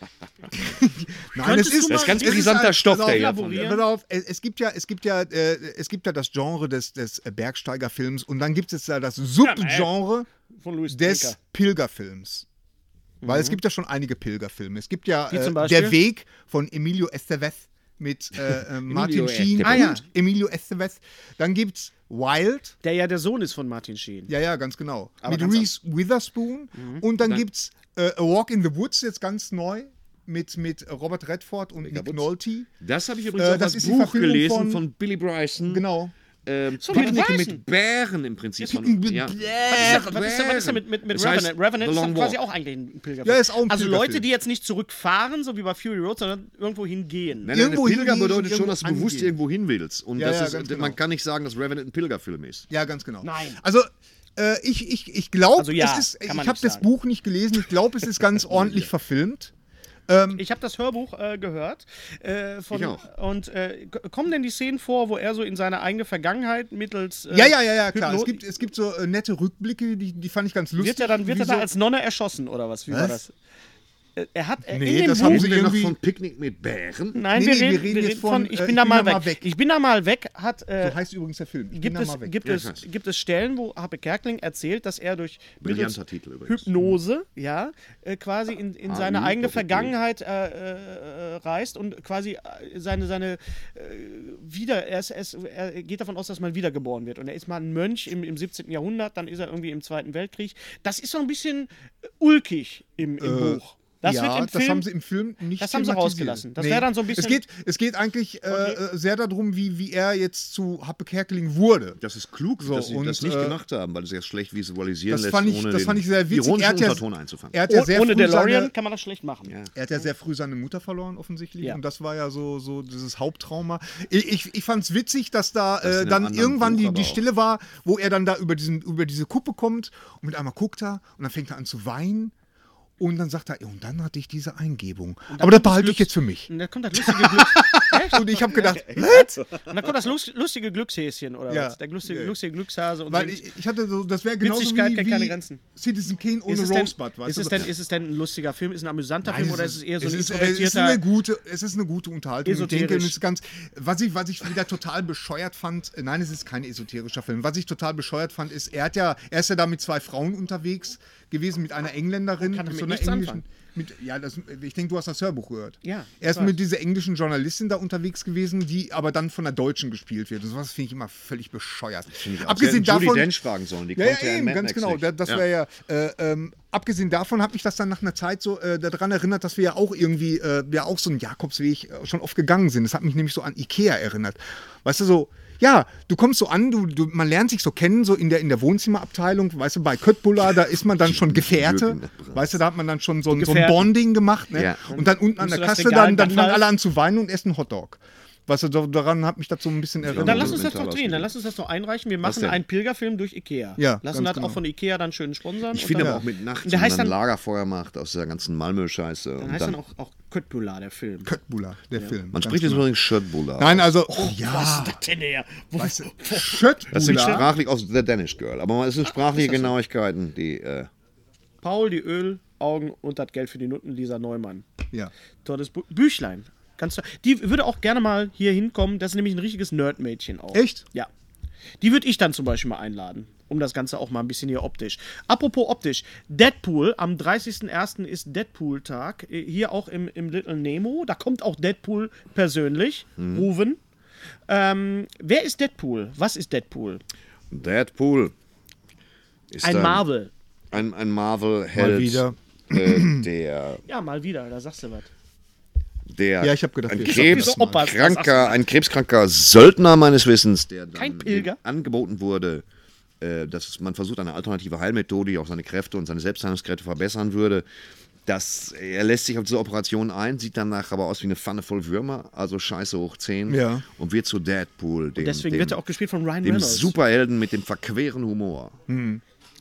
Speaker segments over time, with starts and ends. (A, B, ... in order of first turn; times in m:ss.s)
0:00.6-0:10.3 A
0:01.4-0:03.9 B
0:01.9-0:03.7 C
0:09.4-0:10.0 B
0:10.6-0:11.4 B
0:10.9-0:12.4 A
0:13.2-0:13.6 B
0:13.2-0:22.8 A
0:15.3-0:16.0 B
0:18.9-0:20.0 C
0:19.6-0:20.0 B
0:22.8-0:24.3 B
0:24.3-0:32.7 A
0:25.2-0:25.7 B
0:26.7-0:27.0 B
0:31.8-0:35.8 C
0:33.4-0:34.8 A
0:35.7-0:36.1 A
0:36.4-0:42.4 C
0:36.8-0:37.6 B
0:36.9-0:37.2 A
0:38.6-0:40.0 A
0:39.7-0:47.5 B
0:43.2-0:44.2 A
0:47.4-0:52.7 C
0:47.5-0:49.3 A
0:50.2-0:51.0 A
0:52.7-0:59.5 A
0:53.2-0:53.6 B
0:55.6-0:56.9 B
0:58.5-0:58.9 C
1:00.1-1:00.4 A
1:00.4-1:08.4 B
1:02.7-1:03.0 C
1:07.3-1:11.7 A
1:10.8-1:13.3 B
1:12.9-1:13.2 A
1:14.2-1:15.5 B
1:14.7-1:16.0 A
1:15.1-1:17.2 C
1:17.1-1:21.0 B
1:17.3-1:19.4 A
1:20.8-1:22.4 A
1:21.7-1:44.9 B
1:22.4-1:22.8 C
1:25.6-1:26.8 C
1:28.9-1:29.9 C
1:43.2-1:52.0 A
1:45.6-1:47.4 B
1:48.5-1:48.8 B
1:52.0-1:57.6 C
1:52.6-1:53.6 A
1:55.1-1:58.7 A
1:57.7-1:59.6 B
1:59.7-2:12.3 A
2:05.8-2:07.2 C
2:13.0-2:19.4 A
2:15.3-2:23.5 B
2:21.5-2:22.4 A
2:23.1-2:27.7 A
2:24.4-2:25.6 B
2:26.5-2:31.0 B
2:29.2-2:53.3 A
2:32.4-2:33.2 B
2:42.4-2:43.4 B
2:45.8-2:46.6 B
2:52.1-2:55.4 C
2:54.0-3:20.6 A
3:11.0-3:12.5 C
3:13.3-3:13.9 B
3:14.5-3:14.8 C
3:14.9-3:16.6 B
3:20.0-3:21.3 C
3:20.2-3:27.1 B
3:22.2-3:22.6 C
3:23.8-3:24.6 A
3:25.7-3:29.8 C
3:29.4-3:31.3 B
3:31.2-3:32.9 A
3:32.3-3:33.9 C
3:33.6-3:35.0 A
3:34.1-3:37.4 B
3:35.8-3:37.5 A
3:36.9-3:40.9 C
3:39.0-3:39.7 B
3:41.6-3:44.6 B
3:45.4-3:51.1 B
3:50.5-3:50.8 A
3:51.8-4:03.8 B
4:03.2-4:03.4 C
4:04.5-4:07.0 B
4:07.5-4:08.3 C
4:09.5-4:10.0 C
4:09.6-4:10.3 B
4:10.7-4:13.8 C
4:11.8-4:13.3 A
4:13.9-4:15.1 B
4:16.1-4:22.6 C
4:16.4-4:17.9 A
4:17.0-4:18.6 B
4:21.0-4:21.6 B
4:23.2-4:27.6 C
4:28.3-4:35.8 C
4:33.5-4:33.8 A
4:35.2-4:36.9 B
4:36.4-4:38.8 C
4:38.9-4:39.2 A